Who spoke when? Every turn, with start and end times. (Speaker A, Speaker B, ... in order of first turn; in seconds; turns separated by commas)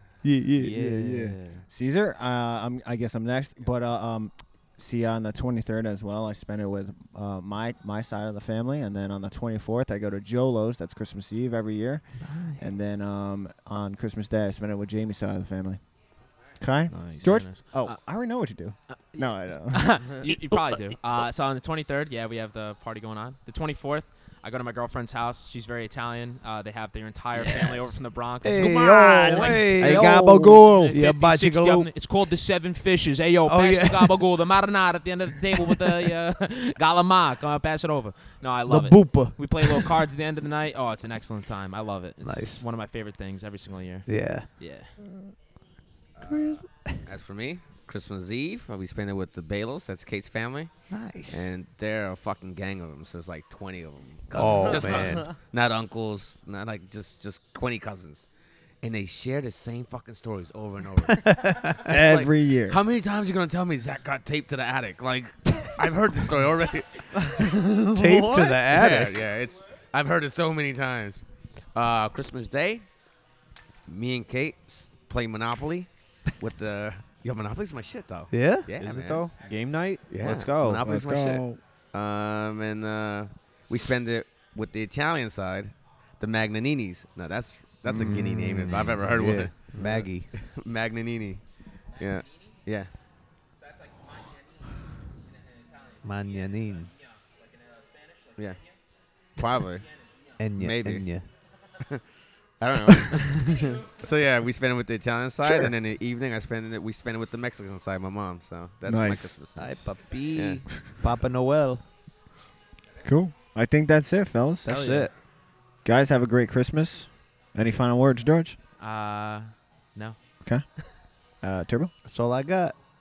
Speaker A: 0.2-1.1, Speaker B: 0.6-1.6, Speaker C: 0.7-15.8, Speaker A: 12.2-12.6, Speaker C: 16.6-20.1, Speaker B: 16.9-17.4, Speaker D: 17.2-18.0, Speaker D: 18.9-44.9, Speaker A: 20.5-20.8, Speaker A: 28.4-31.9, Speaker C: 29.0-31.0, Speaker A: 33.4-34.2, Speaker A: 38.7-40.0, Speaker A: 42.2-42.6, Speaker A: 44.0-44.5, Speaker E: 46.2-58.2, Speaker A: 46.2-47.0, Speaker A: 50.9-51.5, Speaker A: 54.3-55.3, Speaker E: 58.8-72.9, Speaker A: 61.3-61.9, Speaker C: 61.8-62.8, Speaker A: 67.9-69.2, Speaker E: 73.8-79.3, Speaker A: 78.3-78.7, Speaker B: 78.8-80.8, Speaker E: 80.1-92.9, Speaker C: 80.8-81.6, Speaker C: 87.8-88.4, Speaker A: 88.0-90.3, Speaker A: 96.0-96.9, Speaker D: 97.7-98.3, Speaker E: 99.3-99.9, Speaker A: 100.4-101.3, Speaker E: 100.5-101.0, Speaker E: 101.8-102.0, Speaker E: 102.6-110.6, Speaker C: 108.8-109.4, Speaker A: 109.6-111.8, Speaker C: 113.0-114.7, Speaker A: 114.6-115.1, Speaker D: 114.7-115.0, Speaker C: 115.8-118.5, Speaker D: 118.8-120.2, Speaker C: 121.4-121.9, Speaker A: 122.0-122.8